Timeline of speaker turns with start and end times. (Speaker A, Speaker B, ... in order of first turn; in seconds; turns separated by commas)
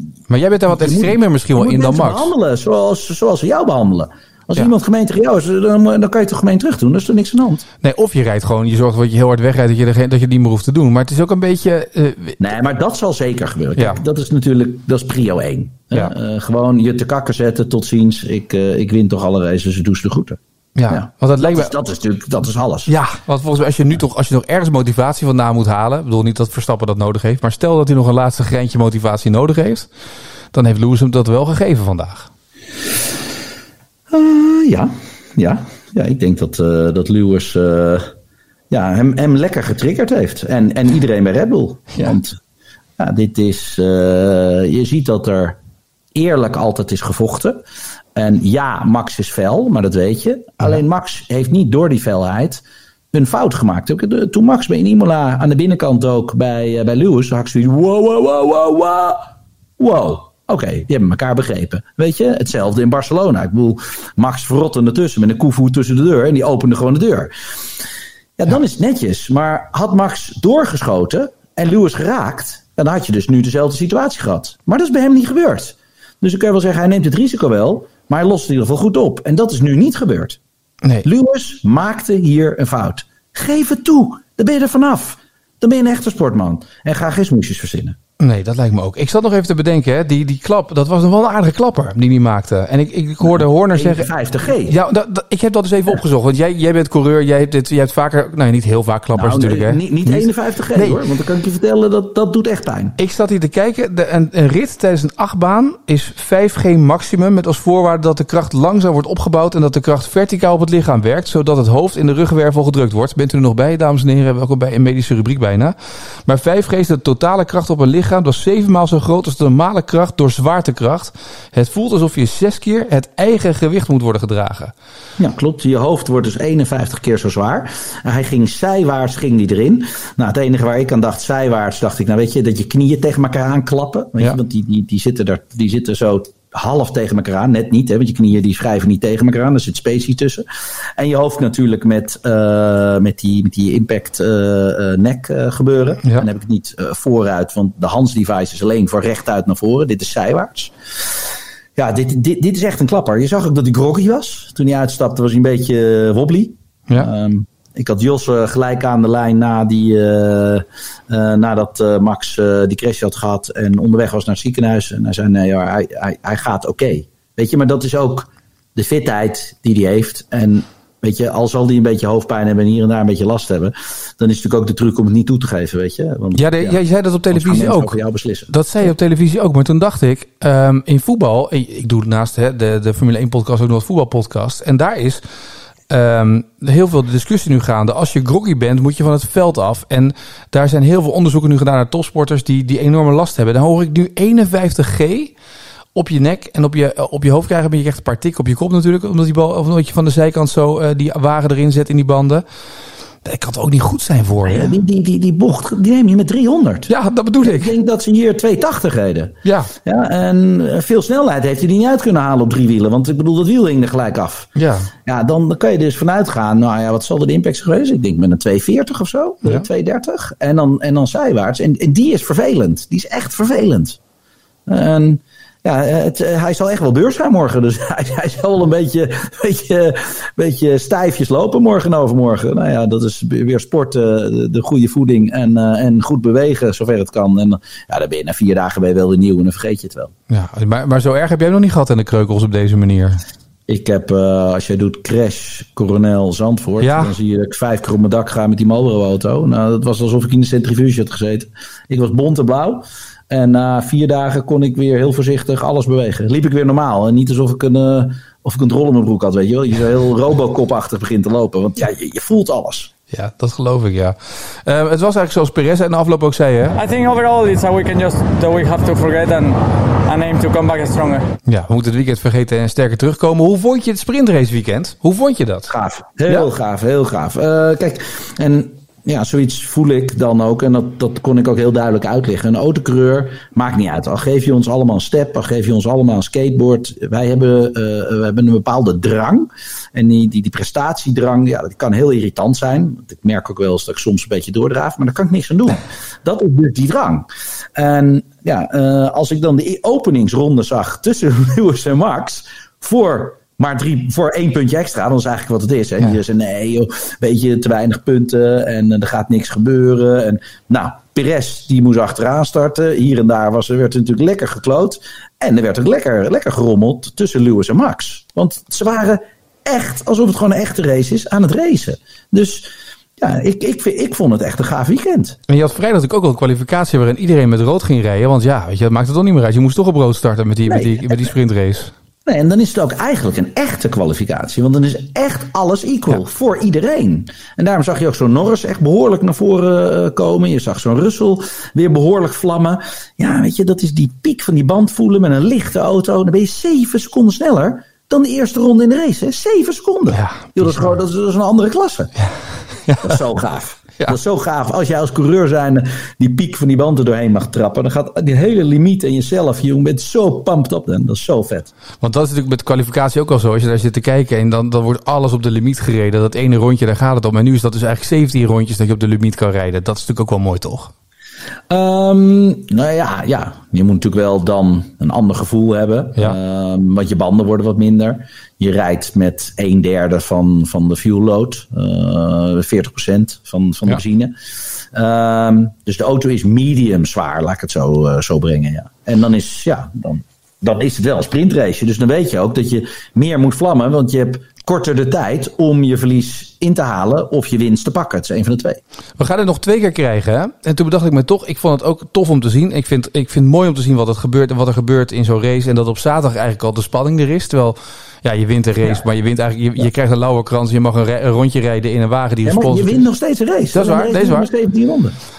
Speaker A: 0.3-2.3, Speaker B: 0.7-7.6, Speaker A: 7.8-12.4, Speaker B: 12.4-22.9, Speaker A: 20.8-21.7, Speaker A: 22.9-29.9, Speaker A: 30.5-32.3, Speaker B: 34.1-38.1, Speaker B: 38.7-42.4, Speaker B: 43.0-45.6, Speaker B: 46.1-47.6, Speaker B: 48.1-59.3, Speaker B: 59.8-67.3, Speaker B: 68.4-80.4, Speaker B: 81.0-88.0, Speaker A: 88.2-94.1, Speaker B: 93.2-94.8, Speaker A: 94.7-101.0, Speaker B: 99.1-103.0, Speaker A: 103.0-115.8, Speaker A: 116.3-124.7, Speaker B: 125.2-140.4, Speaker B: 141.0-150.7, Speaker B: 151.8-178.5, Speaker A: 176.3-178.0, Speaker A: 178.5-185.2, Speaker A: 185.9-195.3, Speaker A: 195.9-202.4, Speaker A: 203.2-204.8, Speaker B: 204.4-206.9, Speaker A: 206.9-207.7, Speaker B: 207.4-214.5, Speaker A: 209.4-209.7, Speaker A: 214.6-214.9, Speaker B: 215.1-224.0, Speaker B: 224.7-240.1, Speaker A: 240.3-243.2, Speaker B: 243.7-262.9, Speaker A: 246.8-247.1, Speaker A: 263.1-266.8, Speaker C: 266.8-271.3, Speaker A: 271.5-275.7, Speaker B: 275.7-325.4, Speaker A: 325.5-331.9, Speaker B: 330.7-331.3, Speaker B: 332.3-352.1, Speaker A: 350.1-351.0, Speaker A: 352.2-353.2, Speaker B: 353.0-361.7, Speaker A: 362.0-370.9, Speaker B: 371.7-384.4, Speaker B: 384.9-398.8, Speaker A: 399.2-413.1, Speaker B: 412.4-415.2, Speaker A: 413.7-414.5